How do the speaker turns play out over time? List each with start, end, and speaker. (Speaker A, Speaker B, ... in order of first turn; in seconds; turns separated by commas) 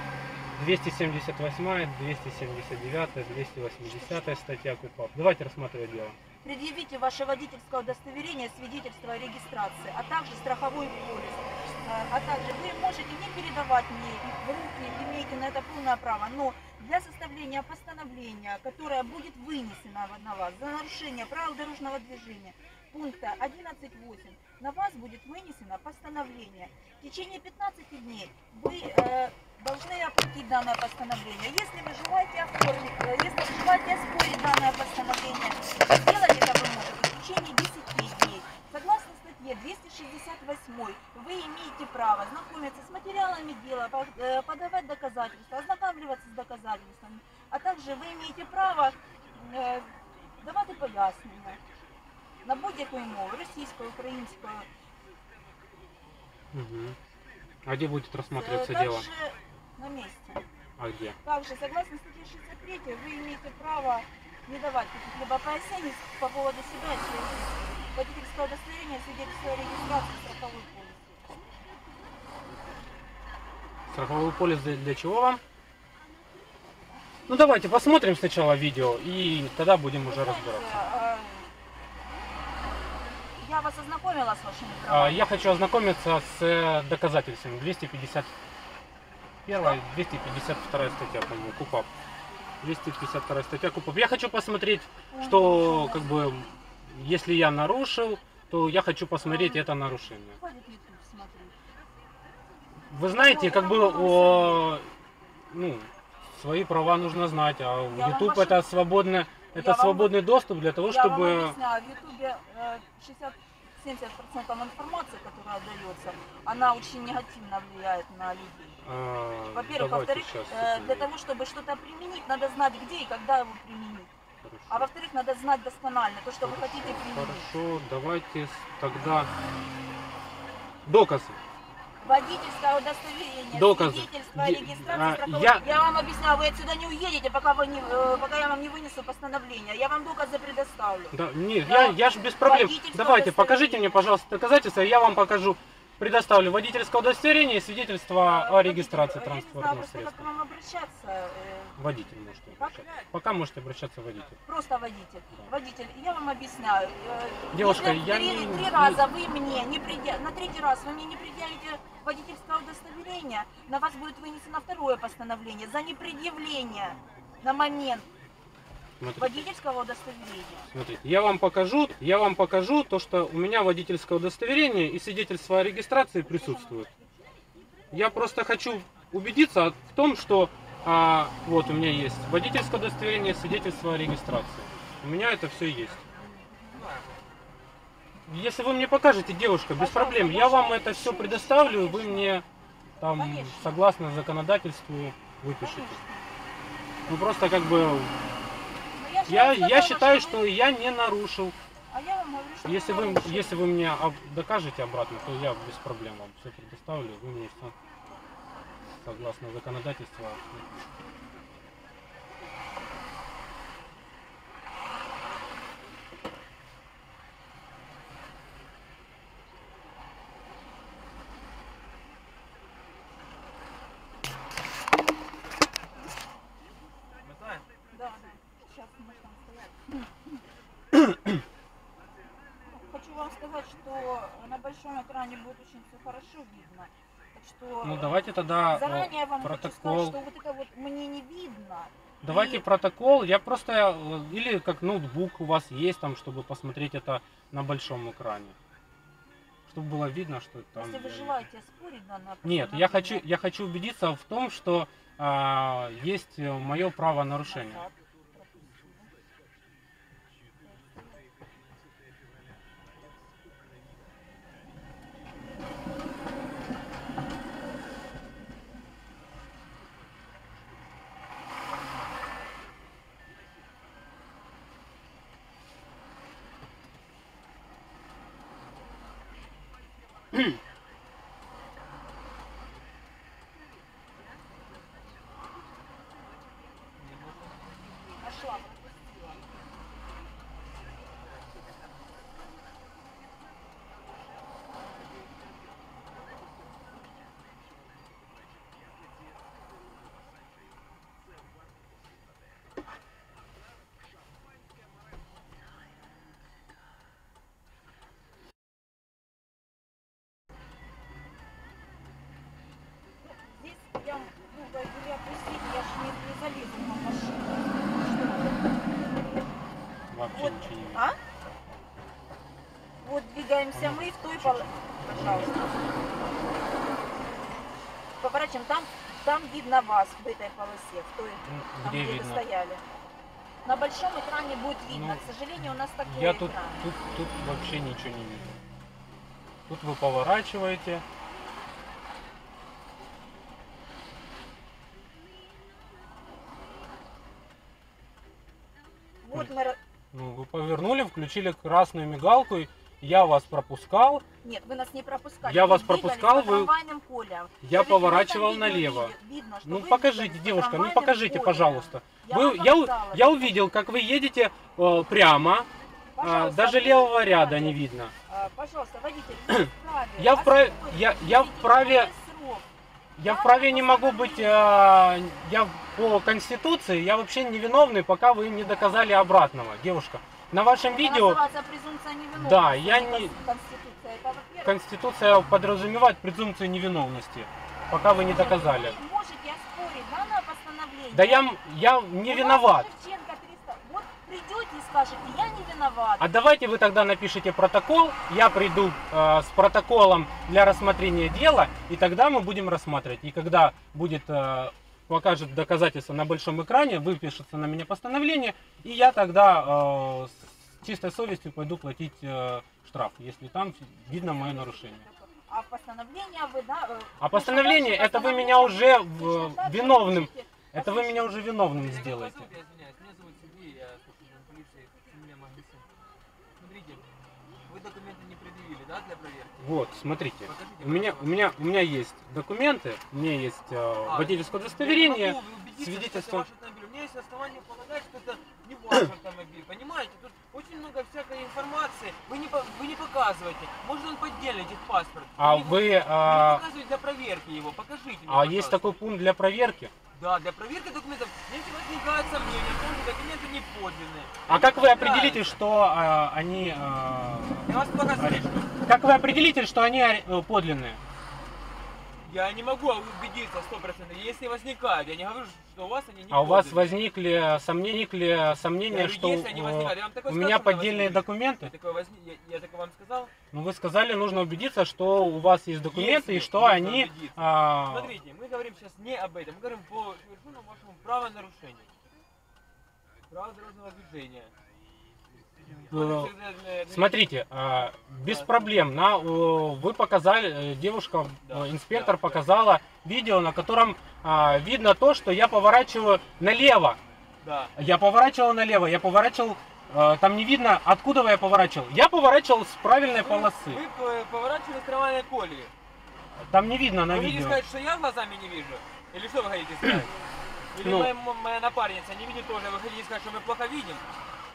Speaker A: 0.6-6.2, Speaker B: 3.8-4.5, Speaker B: 6.4-51.6, Speaker B: 52.4-54.7, Speaker A: 56.5-57.0, Speaker A: 57.6-59.1, Speaker B: 58.3-60.5, Speaker A: 60.8-61.2, Speaker B: 61.2-71.0, Speaker A: 73.9-75.4, Speaker A: 77.3-80.8, Speaker B: 80.0-81.5, Speaker B: 83.4-85.3, Speaker A: 84.9-88.3, Speaker A: 89.5-91.9, Speaker B: 89.5-89.8, Speaker A: 92.6-100.4, Speaker B: 95.1-96.2, Speaker B: 99.2-99.8, Speaker B: 100.4-101.5, Speaker A: 102.9-104.9, Speaker B: 103.1-104.7, Speaker A: 105.5-111.6, Speaker B: 107.9-108.6, Speaker B: 109.5-110.2, Speaker B: 110.9-118.8, Speaker A: 118.8-121.1, Speaker B: 119.5-124.1, Speaker A: 124.4-124.9, Speaker B: 124.7-127.5, Speaker A: 126.4-129.3, Speaker A: 130.8-131.4, Speaker B: 132.0-144.1, Speaker A: 133.5-135.7, Speaker A: 141.1-150.3, Speaker B: 148.2-151.8, Speaker A: 151.8-154.4, Speaker B: 152.5-153.1, Speaker B: 154.4-168.1, Speaker A: 157.5-159.0, Speaker A: 169.0-169.5, Speaker B: 169.2-170.7, Speaker A: 170.7-176.9, Speaker B: 176.1-178.1, Speaker A: 177.9-186.1, Speaker B: 186.2-186.8, Speaker C: 186.7-187.2, Speaker A: 188.3-192.4, Speaker B: 189.8-192.4, Speaker A: 193.0-196.0, Speaker B: 193.0-193.8, Speaker B: 195.6-196.3, Speaker B: 197.1-197.3, Speaker A: 197.1-198.2, Speaker B: 198.9-200.5, Speaker A: 199.3-201.6, Speaker B: 201.9-203.7, Speaker A: 202.7-207.7, Speaker A: 208.9-210.9, Speaker C: 227.2-227.7, Speaker B: 227.9-230.3, Speaker B: 232.7-238.2, Speaker A: 237.8-240.2, Speaker B: 238.7-242.7, Speaker A: 242.2-248.6, Speaker A: 249.7-251.4, Speaker B: 250.8-253.3, Speaker A: 252.4-257.8, Speaker B: 257.4-259.1, Speaker C: 287.0-287.7, Speaker B: 288.2-289.4, Speaker B: 313.2-318.8, Speaker A: 320.1-321.1, Speaker B: 320.3-321.2, Speaker B: 323.0-325.8, Speaker A: 323.7-325.7, Speaker B: 328.2-332.8, Speaker A: 331.5-332.4, Speaker B: 333.6-336.8, Speaker A: 334.9-335.2, Speaker A: 336.1-338.6, Speaker A: 339.7-341.0, Speaker B: 349.2-349.8, Speaker A: 350.1-354.2, Speaker B: 354.4-363.6, Speaker A: 355.4-356.7, Speaker A: 357.6-359.1, Speaker A: 359.6-365.7, Speaker B: 366.1-372.7, Speaker A: 366.2-368.1, Speaker A: 369.5-372.1, Speaker A: 373.2-381.4, Speaker B: 373.2-374.8, Speaker B: 380.9-384.8, Speaker A: 382.4-383.4, Speaker A: 384.6-389.0, Speaker B: 388.2-391.5, Speaker A: 391.1-392.9, Speaker B: 392.2-396.3, Speaker A: 396.2-415.1, Speaker B: 414.1-421.4, Speaker A: 417.2-422.5, Speaker C: 421.7-425.9, Speaker C: 426.6-427.1, Speaker C: 427.7-429.6, Speaker A: 429.6-436.5, Speaker C: 430.4-431.6, Speaker C: 434.1-448.9, Speaker A: 445.4-446.6, Speaker A: 448.3-449.9, Speaker C: 450.1-455.6, Speaker A: 454.5-461.0, Speaker C: 457.7-458.7, Speaker C: 462.2-467.0, Speaker A: 466.3-471.7, Speaker C: 468.9-473.3, Speaker A: 473.5-478.1, Speaker C: 475.9-481.9, Speaker C: 483.3-484.5, Speaker C: 485.6-487.2, Speaker A: 485.9-486.3, Speaker A: 486.9-497.0, Speaker C: 488.2-488.7, Speaker C: 491.4-492.4, Speaker C: 497.4-497.7, Speaker A: 497.8-503.8, Speaker C: 503.1-505.7, Speaker A: 506.4-507.6, Speaker C: 507.1-510.1, Speaker C: 510.7-514.0, Speaker A: 510.8-511.1